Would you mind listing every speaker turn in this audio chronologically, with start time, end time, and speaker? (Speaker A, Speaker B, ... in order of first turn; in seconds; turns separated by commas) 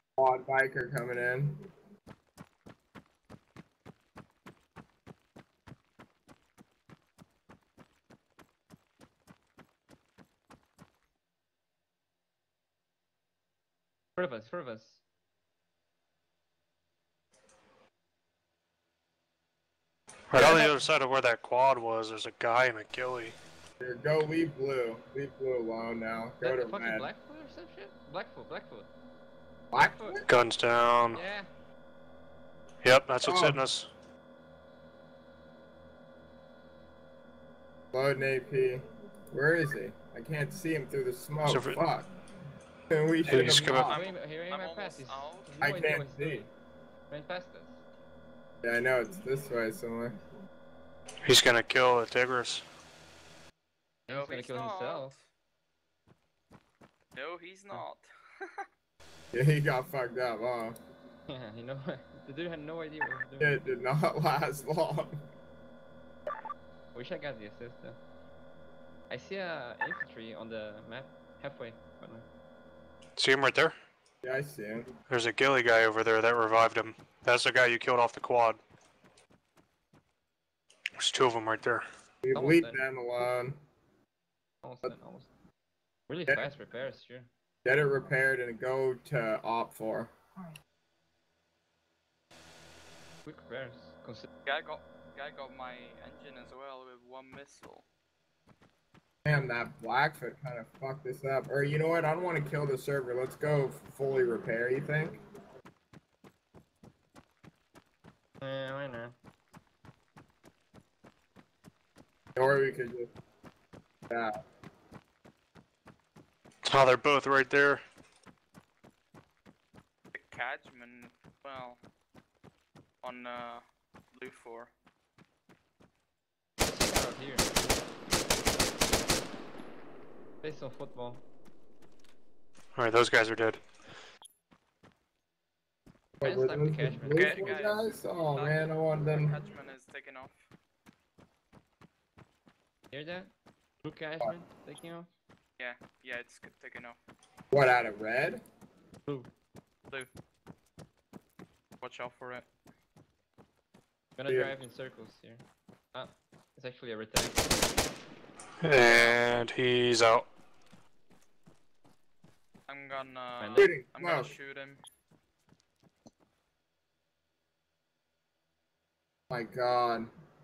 Speaker A: 0.2-1.5, Speaker B: 14.2-15.0, Speaker C: 20.3-23.4, Speaker B: 20.3-20.7, Speaker A: 20.4-20.6, Speaker A: 23.8-27.1, Speaker B: 26.4-28.9, Speaker A: 29.7-30.2, Speaker B: 29.8-30.2, Speaker C: 30.3-31.2, Speaker B: 31.1-31.5, Speaker C: 32.8-33.9, Speaker A: 33.2-33.6, Speaker A: 37.9-42.1, Speaker C: 41.5-41.8, Speaker A: 42.9-44.0, Speaker C: 43.3-43.9, Speaker D: 43.8-45.7, Speaker B: 43.9-46.5, Speaker A: 45.6-46.5, Speaker B: 47.1-47.8, Speaker A: 48.6-50.1, Speaker C: 51.2-52.6, Speaker B: 54.1-55.1, Speaker D: 54.1-55.2, Speaker D: 57.1-58.6, Speaker A: 59.3-60.7, Speaker B: 61.3-63.6, Speaker A: 63.4-65.1, Speaker B: 66.9-68.0, Speaker B: 69.1-72.3, Speaker C: 73.2-73.8, Speaker A: 74.2-74.9, Speaker C: 75.1-78.6, Speaker C: 81.0-81.8, Speaker A: 82.2-83.6, Speaker B: 82.3-82.8, Speaker B: 84.6-85.3, Speaker B: 86.1-87.3, Speaker A: 87.6-90.1, Speaker B: 93.2-94.3, Speaker D: 94.5-97.9, Speaker A: 99.2-105.1, Speaker B: 108.4-109.2, Speaker A: 112.4-113.1, Speaker C: 116.6-117.8, Speaker D: 120.1-121.8, Speaker D: 123.0-124.7, Speaker B: 126.7-127.8, Speaker B: 130.4-131.2, Speaker C: 132.8-133.6, Speaker A: 136.2-139.4, Speaker B: 136.2-137.7, Speaker D: 137.1-140.4, Speaker B: 142.9-143.3, Speaker B: 143.8-145.1, Speaker D: 145.6-147.0, Speaker A: 147.5-148.4, Speaker D: 151.8-152.5, Speaker B: 154.2-157.6, Speaker A: 154.2-154.6, Speaker C: 158.6-160.3, Speaker D: 158.8-159.5, Speaker D: 162.7-164.8, Speaker B: 163.4-163.8, Speaker A: 163.6-164.3, Speaker A: 169.3-170.1